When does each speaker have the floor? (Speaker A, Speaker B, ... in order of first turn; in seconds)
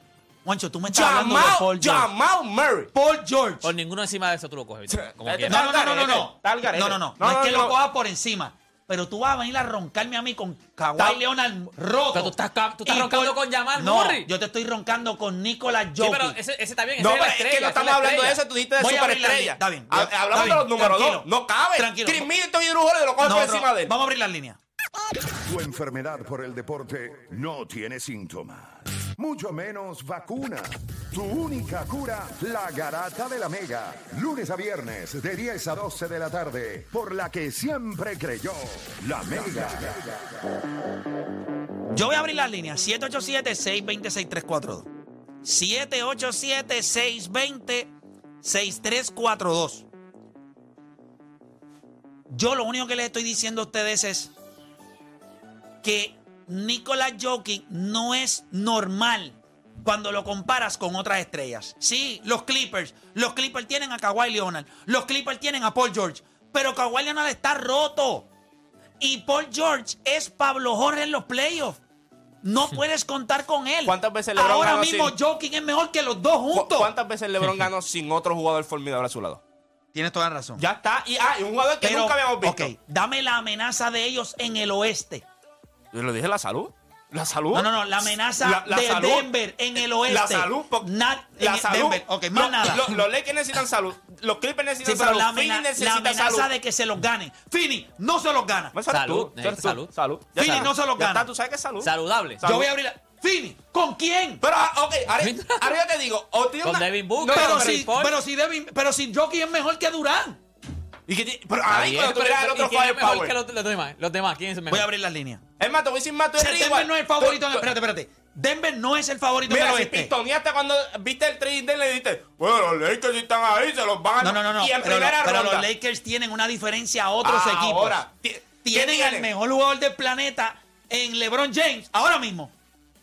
Speaker A: 0.5-2.1, 2.9-3.7, 5.5-16.4, 18.8-22.3, 23.2-24.6, 41.9-44.9, 45.4-49.9, 52.3-54.3, 55.8-68.3, 69.0-71.8, 72.4-76.9, 79.9-80.6, 81.8-85.2, 87.5-93.0, 94.8-98.8, 100.4-101.3, 102.4-104.4, 107.3-110.4, 114.7-115.4, 116.4-120.1, 124.2-128.0, 128.6-132.5
Speaker B: 0.9-2.9, 4.9-7.8, 17.0-23.9, 73.8-75.1, 76.5-79.4, 80.6-82.7, 85.9-89.3, 90.1-96.5, 98.7-102.7, 104.4-107.9, 111.1-113.3, 115.6-117.7, 119.5-125.7, 127.2-129.3
Speaker C: 3.6-5.6, 12.1-14.3, 16.0-18.4, 98.9-100.7, 101.8-102.4, 105.2-105.8, 106.6-108.2, 111.7-114.9
Speaker D: 25.4-40.2